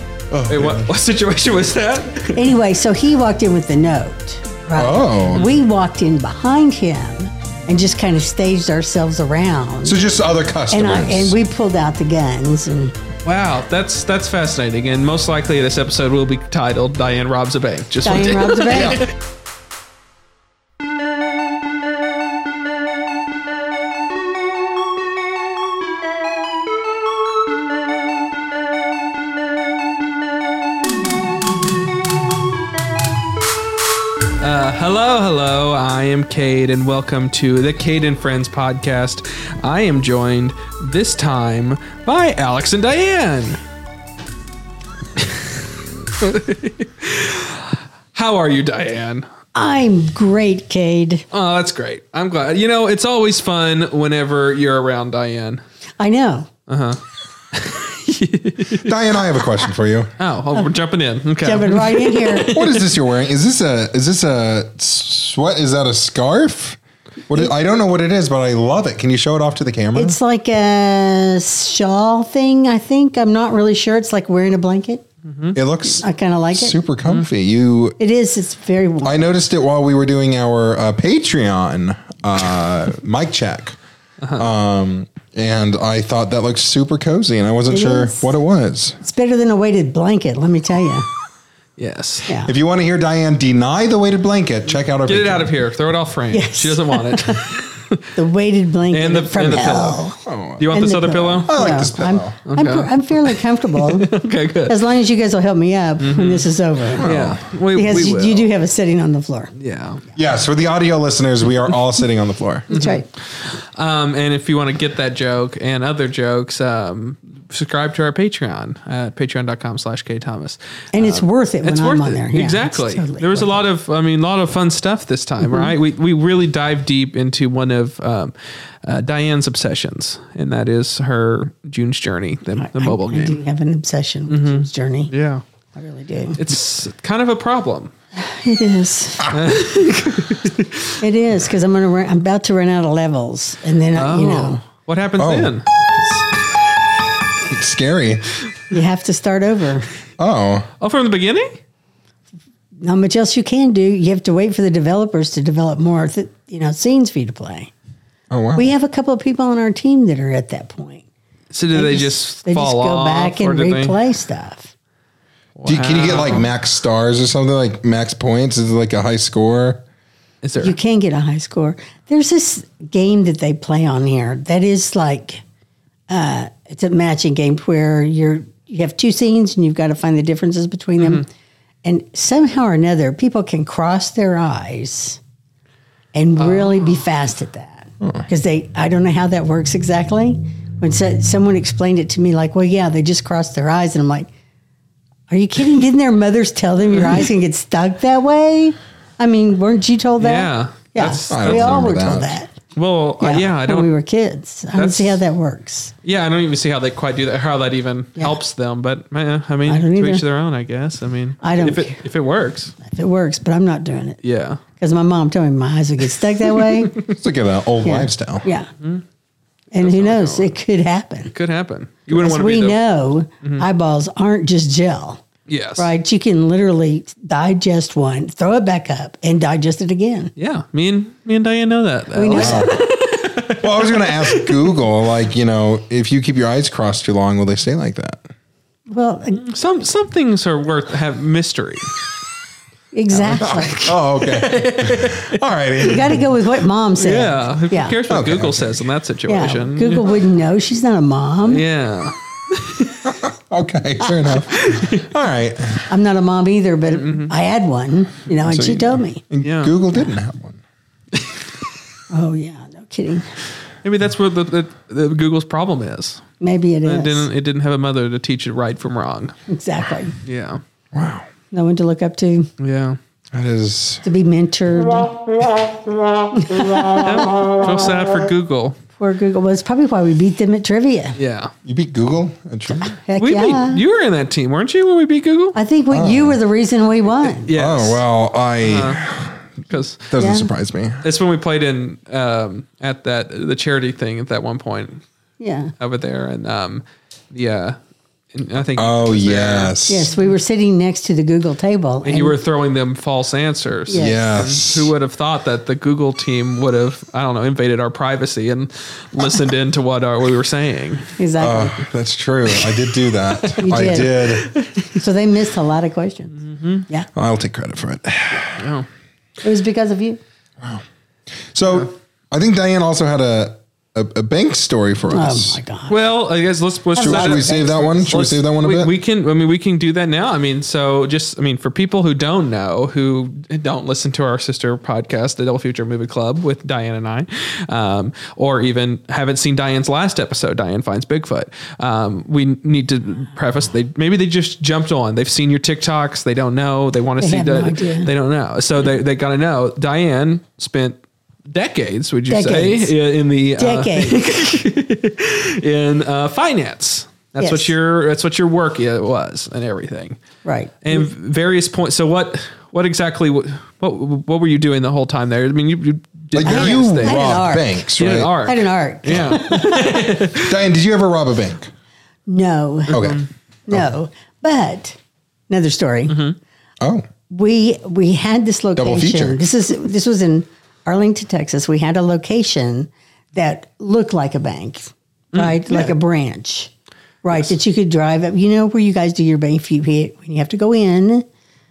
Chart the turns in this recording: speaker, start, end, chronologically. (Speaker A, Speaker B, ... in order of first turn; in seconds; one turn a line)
Speaker A: 0.3-0.9
Speaker B: 0.5-2.5
Speaker C: 2.3-10.0
Speaker A: 4.8-5.4
Speaker A: 9.8-11.4
Speaker C: 10.7-12.9
Speaker B: 13.2-19.1
Speaker C: 18.0-19.1
Speaker A: 18.7-19.1
Speaker B: 34.4-43.6
Speaker B: 45.2-45.5
Speaker B: 46.2-49.3
Speaker C: 49.5-51.2
Speaker B: 51.3-55.6
Speaker C: 56.0-56.5
Speaker B: 56.7-57.0
Speaker B: 57.5-59.0
Speaker A: 58.8-60.1
Speaker B: 60.2-62.9
Speaker C: 61.4-62.6
Speaker A: 62.5-70.2
Speaker C: 70.0-75.0
Speaker B: 75.2-75.6
Speaker A: 75.5-78.0
Speaker C: 76.0-76.8
Speaker C: 78.0-79.3
Speaker A: 79.0-83.8
Speaker B: 84.2-84.5
Speaker A: 84.4-89.0
Speaker C: 87.7-88.2
Speaker C: 89.0-91.1
Speaker B: 91.8-92.3
Speaker A: 92.5-95.5
Speaker B: 95.1-98.1
Speaker C: 96.3-97.6
Speaker C: 98.2-107.1
Speaker B: 98.9-100.1
Speaker A: 99.8-100.6
Speaker B: 100.6-101.6
Speaker A: 101.5-102.3
Speaker B: 102.5-104.8
Speaker B: 106.0-106.5
Speaker A: 107.0-107.4
Speaker B: 107.0-108.5
Speaker C: 107.7-109.5
Speaker B: 109.5-110.0
Speaker A: 110.2-112.7
Speaker B: 112.7-133.4
Speaker C: 112.7-113.1
Speaker C: 120.9-123.6
Speaker C: 125.4-125.7
Speaker C: 132.6-135.1
Speaker B: 134.3-135.4
Speaker C: 135.8-136.4
Speaker B: 136.4-137.9
Speaker C: 138.2-139.3
Speaker B: 139.3-141.0
Speaker C: 141.0-144.6
Speaker B: 143.9-145.7
Speaker A: 145.2-145.5
Speaker A: 147.4-148.2
Speaker C: 148.7-149.9
Speaker A: 150.2-150.7
Speaker B: 150.8-151.6
Speaker C: 152.8-157.7
Speaker A: 158.3-158.7
Speaker C: 158.6-161.0
Speaker B: 161.5-164.0
Speaker C: 161.7-164.7
Speaker B: 165.6-166.5
Speaker A: 165.7-169.8
Speaker B: 170.4-170.8
Speaker C: 170.6-175.4
Speaker C: 176.1-181.3
Speaker B: 181.0-181.2
Speaker C: 181.8-185.2
Speaker C: 186.1-194.3
Speaker B: 186.4-186.9
Speaker C: 195.3-202.5
Speaker B: 200.2-201.9
Speaker A: 201.3-202.4
Speaker B: 202.8-203.9
Speaker C: 203.2-205.9
Speaker B: 204.8-205.2
Speaker B: 206.0-212.7
Speaker C: 209.7-210.2
Speaker C: 211.4-212.0
Speaker C: 212.8-214.2
Speaker B: 214.2-214.6
Speaker C: 214.8-217.0
Speaker A: 217.0-218.5
Speaker C: 217.8-218.7
Speaker C: 219.7-221.3
Speaker B: 219.8-220.6
Speaker B: 221.3-222.8
Speaker C: 222.1-225.2
Speaker B: 225.5-225.9
Speaker C: 225.8-230.3
Speaker B: 230.4-234.6
Speaker C: 232.1-232.8
Speaker A: 232.3-232.8
Speaker A: 233.6-238.3
Speaker C: 238.9-239.4
Speaker B: 239.3-241.9
Speaker C: 242.9-244.0
Speaker B: 243.2-243.6
Speaker A: 243.3-246.3
Speaker B: 244.2-245.4
Speaker C: 245.8-248.0
Speaker B: 247.0-250.1
Speaker A: 248.1-248.8
Speaker C: 249.3-251.6
Speaker B: 251.5-253.2
Speaker A: 253.1-255.9
Speaker B: 254.5-255.1
Speaker C: 255.9-259.3
Speaker B: 256.9-257.3
Speaker A: 258.4-260.6
Speaker B: 259.4-259.7
Speaker C: 262.1-263.3
Speaker B: 263.8-266.3
Speaker C: 266.4-267.3
Speaker B: 266.9-269.4
Speaker C: 269.5-270.1
Speaker B: 270.2-270.6
Speaker A: 270.9-271.3
Speaker C: 271.5-272.5
Speaker B: 272.6-273.0
Speaker A: 273.3-274.0
Speaker C: 274.0-275.4
Speaker C: 276.3-277.3
Speaker B: 276.9-278.8
Speaker C: 279.0-281.2
Speaker B: 281.2-281.5
Speaker A: 281.6-282.9
Speaker C: 282.7-283.8
Speaker B: 283.2-285.6
Speaker C: 285.6-287.5
Speaker A: 285.9-286.4
Speaker B: 287.4-288.0
Speaker A: 287.5-289.4
Speaker B: 288.6-289.0
Speaker B: 289.7-290.1
Speaker A: 290.1-291.0
Speaker C: 290.2-290.5
Speaker B: 291.0-295.0
Speaker C: 295.4-295.7
Speaker B: 295.8-297.8
Speaker B: 298.3-299.8
Speaker A: 298.8-300.1
Speaker C: 299.9-302.4
Speaker B: 302.0-311.2
Speaker C: 303.9-304.4
Speaker A: 303.9-304.9
Speaker C: 311.2-311.8
Speaker A: 311.4-314.5
Speaker B: 313.3-313.8
Speaker C: 313.6-314.2
Speaker B: 314.4-314.9
Speaker C: 314.9-316.4
Speaker B: 316.4-316.9
Speaker A: 317.2-318.6
Speaker B: 318.5-318.9
Speaker C: 319.4-320.2
Speaker A: 321.5-325.6
Speaker C: 325.1-326.0
Speaker B: 325.9-360.2
Speaker C: 326.9-328.1
Speaker A: 327.0-328.9
Speaker C: 347.2-348.1
Speaker C: 352.3-352.9
Speaker C: 353.6-354.2
Speaker C: 357.4-357.7
Speaker C: 360.4-361.1
Speaker B: 360.8-367.4
Speaker A: 366.3-368.3
Speaker C: 366.4-367.8
Speaker B: 368.0-370.6
Speaker C: 368.4-370.1
Speaker A: 369.1-369.4
Speaker A: 370.4-371.7
Speaker C: 372.3-373.0
Speaker B: 372.9-373.3
Speaker A: 372.9-373.9
Speaker C: 373.7-375.0
Speaker C: 375.5-376.2
Speaker B: 376.1-376.4
Speaker A: 376.8-377.1
Speaker C: 377.3-386.7
Speaker A: 378.8-379.4
Speaker B: 385.3-385.9
Speaker C: 387.2-391.3